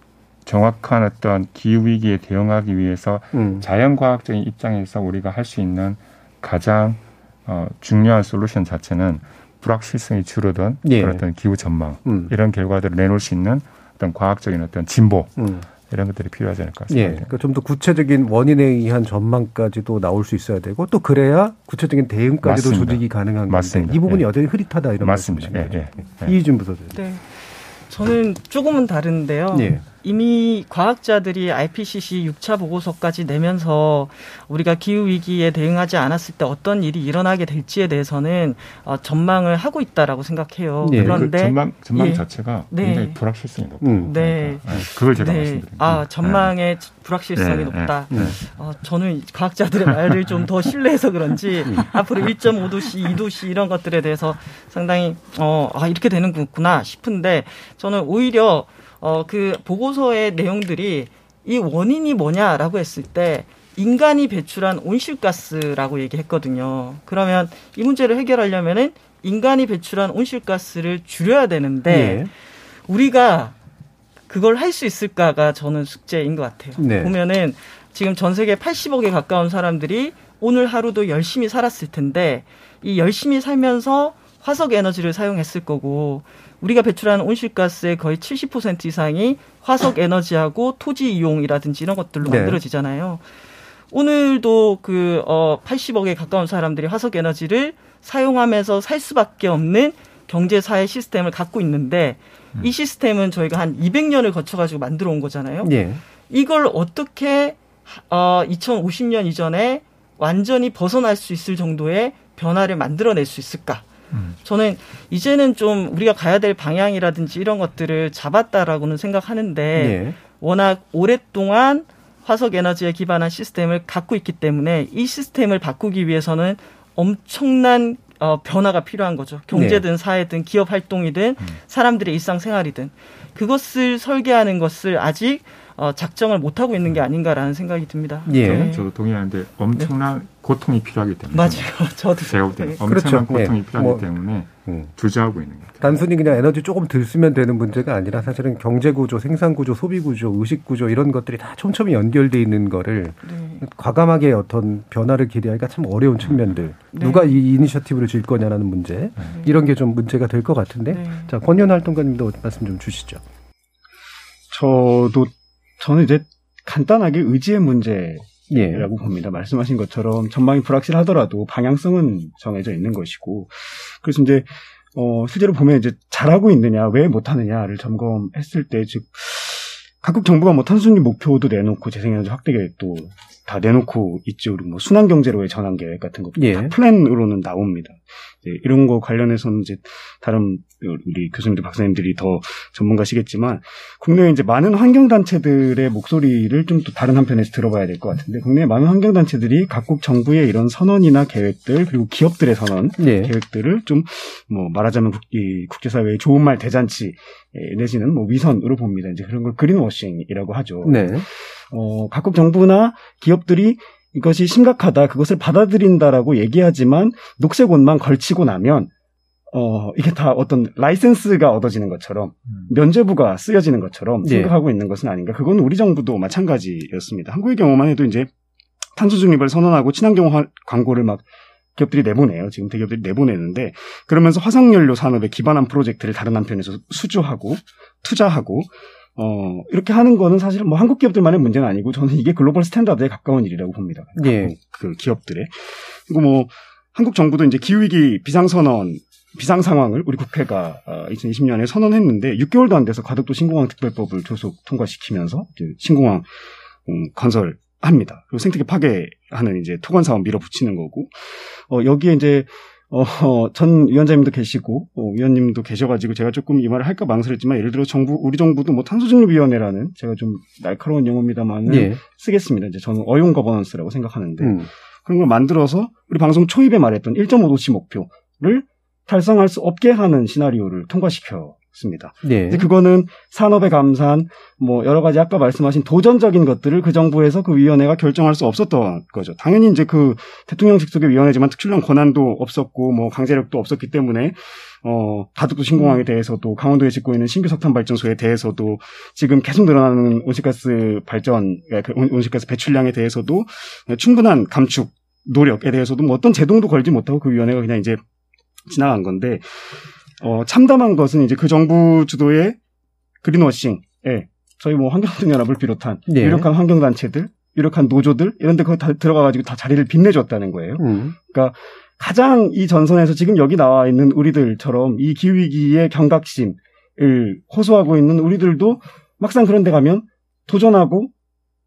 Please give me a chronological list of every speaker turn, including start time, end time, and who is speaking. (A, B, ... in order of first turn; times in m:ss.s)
0:00.4-0:17.3 A
0:03.3-0:03.6 B
0:10.8-0:11.2 B
0:12.0-0:12.3 B
0:15.4-0:15.6 B
0:16.9-0:27.0 B
0:22.4-0:24.2 A
0:25.0-0:26.4 A
0:26.9-0:43.2 C
0:29.5-0:29.8 B
0:40.8-0:41.3 B
0:40.9-0:46.5 A
0:43.8-0:44.1 B
0:44.0-1:12.3 C
0:47.4-0:48.4 A
0:48.1-0:48.4 B
1:11.9-1:12.3 B
1:12.9-1:13.5 C
1:14.3-1:33.2 C
1:16.8-1:17.2 B
1:32.2-1:32.6 B
1:33.9-1:45.7 C
1:45.6-1:46.0 B
1:46.3-1:53.9 C
1:54.4-2:18.8 C
1:59.8-2:00.2 B
2:09.5-2:09.8 B
2:18.2-2:18.7 B
2:18.3-2:26.0 A
2:21.3-2:22.8 C
2:22.8-2:24.9 B
2:25.8-2:43.2 B
2:33.2-2:33.6 C
2:36.9-2:37.3 C
2:40.9-2:41.3 C
2:44.5-3:38.9 D
2:48.5-2:48.9 B
3:06.4-3:06.7 B
3:23.0-3:23.3 B
3:30.8-3:31.2 B
3:39.5-3:48.3 D
3:44.2-3:44.5 B
3:48.9-4:16.2 D
4:04.2-4:04.5 B
4:16.8-4:21.1 D
4:21.7-5:08.0 D
4:31.6-4:32.0 B
4:34.4-4:34.7 B
4:42.2-4:42.7 B
5:08.7-5:09.4 D
5:10.2-5:12.6 D
5:13.2-5:31.1 D
5:16.1-5:16.5 B
5:20.8-5:21.2 B